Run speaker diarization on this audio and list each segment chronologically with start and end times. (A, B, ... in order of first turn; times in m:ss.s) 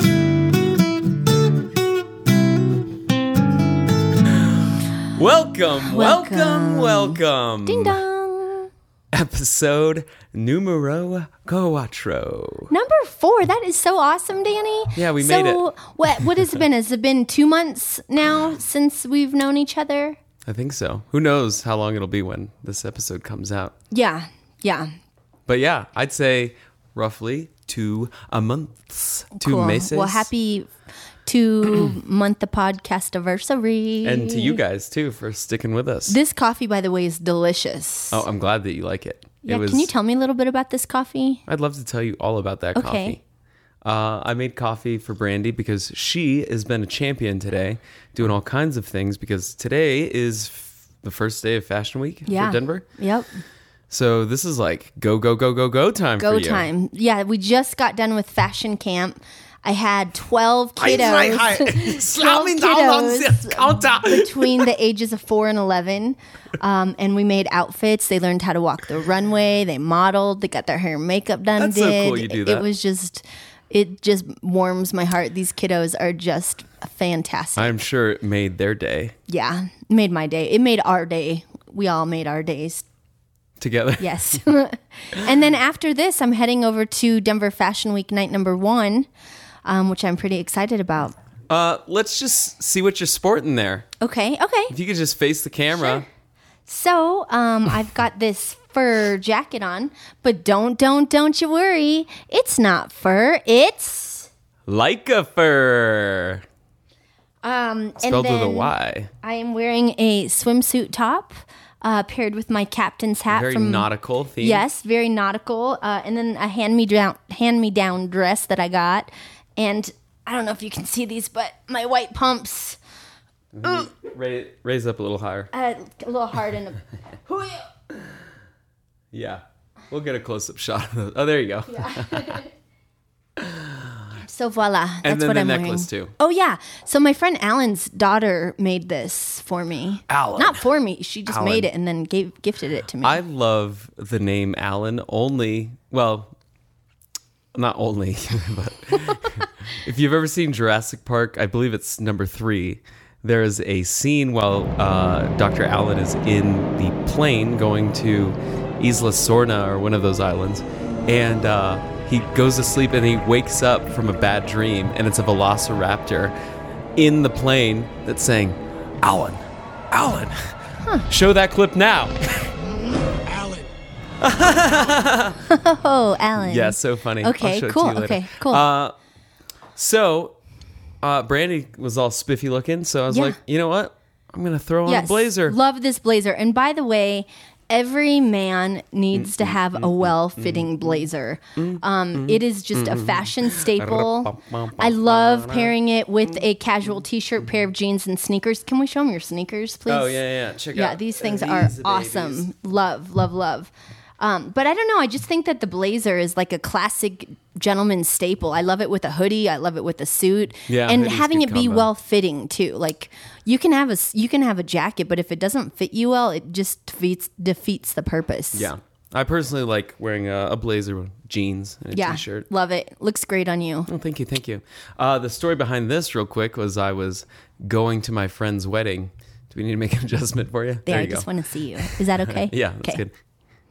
0:04.2-0:08.0 A
0:05.8-0:08.7 B
0:09.1-0:12.7 A
0:12.7-0:20.2 B
0:15.0-0:15.6 A
0:16.2-0:16.5 A
0:20.4-0:23.7 A
0:23.9-0:24.9 B
0:25.5-0:30.3 A
0:29.4-0:30.7 B
0:31.2-0:34.6 B
0:34.0-0:36.2 A
0:36.1-0:38.2 B
0:38.1-0:39.9 A
0:39.4-0:41.4 B
0:41.5-0:43.2 A
0:42.7-0:43.2 B
0:43.8-0:52.8 A
0:52.3-0:53.3 B
0:53.9-0:56.7 A
0:56.2-1:17.8 B
1:00.8-1:04.7 A
1:11.6-1:12.6 A
1:17.6-1:19.1 A
1:19.3-1:22.9 B
1:23.6-1:24.4 A
1:24.0-1:29.1 B
1:29.6-1:31.1 B
1:31.5-1:33.9 A
1:34.0-1:34.7 B
1:34.7-1:36.0 A
1:36.7-1:44.3 B
1:44.7-1:46.4 A
1:47.4-1:53.9 B
1:48.0-1:49.1 A
1:53.3-1:54.6 A
1:54.4-2:02.8 B
2:03.5-2:05.5 A
2:05.5-2:07.7 B
2:09.1-2:12.4 A
2:11.8-2:12.5 B
2:13.4-2:14.1 A
2:14.2-2:23.2 B
2:15.0-2:16.1 A
2:20.1-2:20.6 A
2:21.3-2:21.7 A
2:23.0-2:26.3 A
2:27.5-2:46.3 A
2:47.0-2:50.6 A
2:51.1-2:52.5 A
2:54.2-2:55.4 A
2:55.5-2:58.7 B
2:56.4-2:59.0 A
2:59.8-3:00.3 A
3:01.0-3:05.6 A
3:03.1-3:03.4 B
3:04.8-3:20.2 B
3:09.1-3:15.8 A
3:19.9-3:22.5 A
3:20.7-3:38.7 B
3:30.7-3:31.9 A
3:38.5-3:42.4 A
3:41.9-3:43.9 B
3:43.9-3:53.1 A
3:50.8-3:53.0 B